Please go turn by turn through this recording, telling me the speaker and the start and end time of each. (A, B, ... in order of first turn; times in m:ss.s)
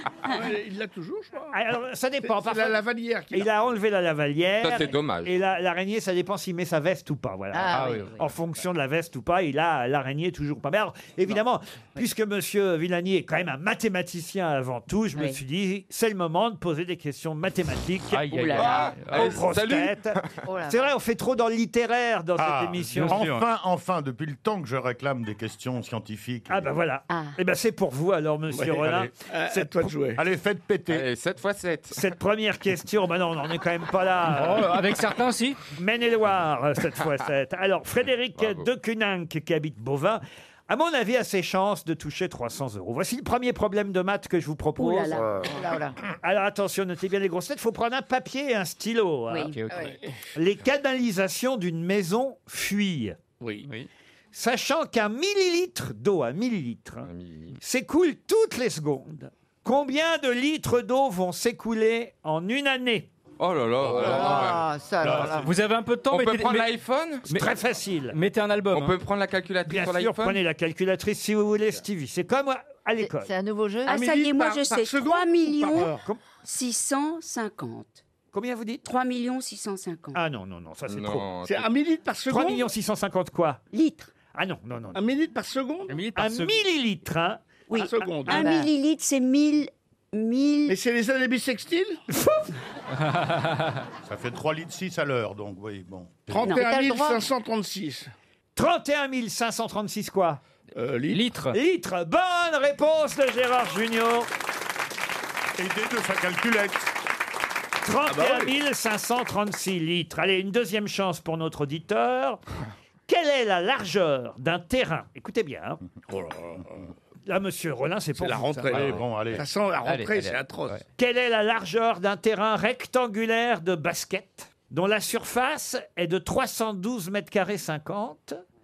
0:00.3-0:01.6 A
0:01.5-0:23.3 B
0:02.2-0:03.5 A
0:04.6-0:05.3 C
0:07.5-0:08.2 D
0:07.7-0:08.1 E
0:18.1-0:19.3 E
0:18.5-0:20.4 C
0:20.4-0:20.9 D
0:22.4-0:26.7 F
0:22.9-0:23.4 E
0:26.5-0:29.9 B
0:27.1-0:27.4 G
0:28.5-0:30.2 A
0:30.2-0:31.0 F
0:30.9-0:32.0 C
0:31.9-0:34.7 B
0:34.3-0:35.6 E
0:35.8-0:45.3 B
0:38.4-0:38.7 C
0:44.8-0:45.6 G
0:45.4-0:46.0 D
0:46.1-0:49.6 B
0:49.4-0:49.9 E
0:49.7-0:50.1 A
0:50.3-0:53.2 B
0:53.4-0:53.7 A
0:54.3-0:57.1 B
0:57.0-0:57.5 C
0:57.6-1:03.1 B
1:03.4-1:04.6 C
1:03.8-1:05.4 A
1:03.9-1:05.6 D
1:05.0-1:06.7 E
1:06.1-1:07.3 C
1:07.2-1:07.5 E
1:07.3-1:08.2 B
1:08.1-1:08.9 E
1:08.7-1:10.4 C
1:09.7-1:13.3 B
1:13.0-1:14.0 D
1:13.9-1:18.0 G
1:13.9-1:16.0 A
1:18.3-1:18.8 B
1:18.8-1:20.2 G
1:20.1-1:21.3 B
1:20.9-1:21.7 C
1:21.4-1:22.7 A
1:22.3-1:23.6 B
1:23.7-1:24.1 G
1:24.3-1:25.0 B
1:24.9-1:26.0 A
1:25.9-1:26.6 E
1:26.2-1:28.4 B
1:27.7-1:30.8 G
1:27.7-1:28.5 A
1:28.3-1:28.7 D
1:30.7-1:32.0 A
1:32.9-1:33.8 E
1:34.0-1:36.6 F
1:36.3-1:38.1 A
1:36.4-1:37.2 D
1:38.6-1:40.4 B
1:40.7-1:41.2 A
1:41.1-1:41.6 E
1:41.5-1:44.3 B
1:45.6-1:46.9 F
1:47.8-1:52.4 B
1:48.0-1:48.6 A
1:53.1-1:55.8 B
1:56.1-1:56.9 A
1:57.2-1:59.0 B
1:58.1-2:00.8 A
1:58.7-1:59.5 F
1:59.8-2:00.8 E
2:01.0-2:08.4 B